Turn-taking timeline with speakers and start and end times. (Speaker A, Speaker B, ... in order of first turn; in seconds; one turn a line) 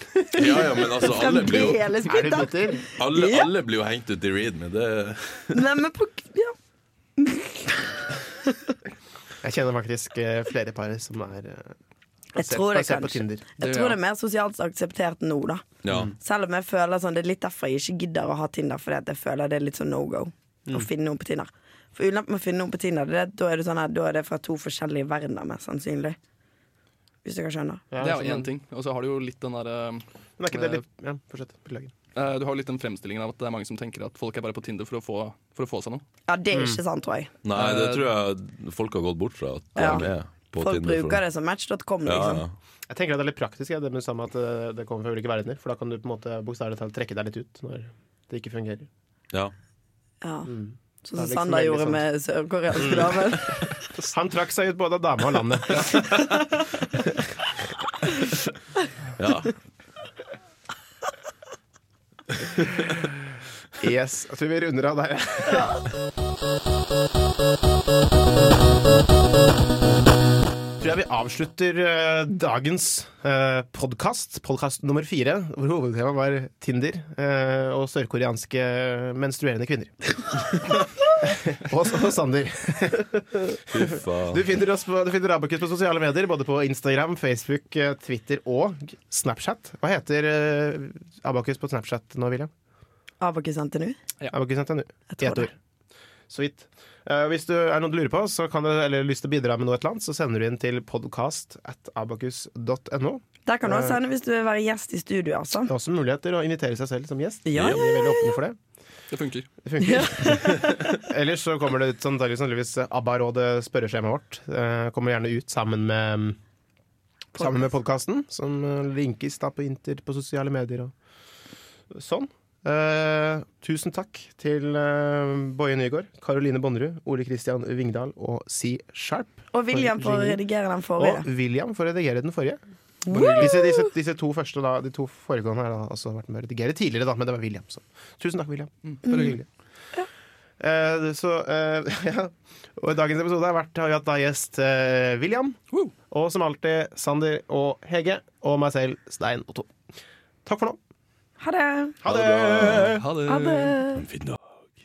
Speaker A: 0.3-1.9
Speaker B: 0.5-3.5
Speaker C: 2.1-2.9
Speaker A: 3.0-5.6
Speaker B: 5.5-6.6
Speaker B: 7.2-8.7
Speaker C: 9.4-11.8
Speaker C: 12.3-13.4
Speaker B: 12.3-15.7
Speaker D: 13.6-14.0
Speaker A: 15.8-16.1
Speaker C: 15.9-16.1
Speaker B: 16.2-26.2
Speaker B: 27.2-27.8
Speaker C: 27.9-28.5
Speaker D: 28.0-30.8
Speaker C: 30.4-31.9
Speaker D: 32.1-36.0
Speaker B: 36.3-37.3
Speaker C: 36.5-36.8
Speaker A: 37.4-41.2
Speaker D: 37.5-38.1
Speaker B: 39.8-42.5
Speaker A: 42.0-42.5
Speaker C: 42.9-48.9
Speaker B: 50.2-50.5
Speaker C: 50.5-52.0
Speaker B: 51.0-53.9
Speaker C: 52.8-56.3
Speaker A: 59.2-59.6
Speaker C: 63.8-65.8
Speaker C: 70.8-92.5
Speaker A: 83.7-84.5
Speaker B: 93.2-94.0
Speaker C: 94.3-95.5
Speaker B: 95.1-95.5
Speaker C: 96.3-104.0
Speaker B: 103.5-105.7
Speaker C: 105.7-108.6
Speaker B: 107.5-108.3
Speaker A: 107.5-107.8
Speaker D: 109.1-109.5
Speaker C: 109.7-116.4
Speaker B: 109.8-110.6
Speaker C: 117.3-120.9
Speaker C: 121.9-130.4
Speaker B: 129.5-131.2
Speaker C: 131.0-132.6
Speaker B: 133.1-133.8
Speaker D: 133.1-133.6
Speaker C: 133.1-139.5
Speaker D: 138.9-139.4
Speaker C: 140.6-145.6
Speaker C: 146.1-149.7
Speaker C: 150.5-150.8
Speaker B: 151.4-152.0
Speaker C: 152.0-153.1
Speaker A: 152.1-153.0
Speaker D: 153.0-153.8
Speaker B: 153.3-154.1
Speaker A: 154.0-154.4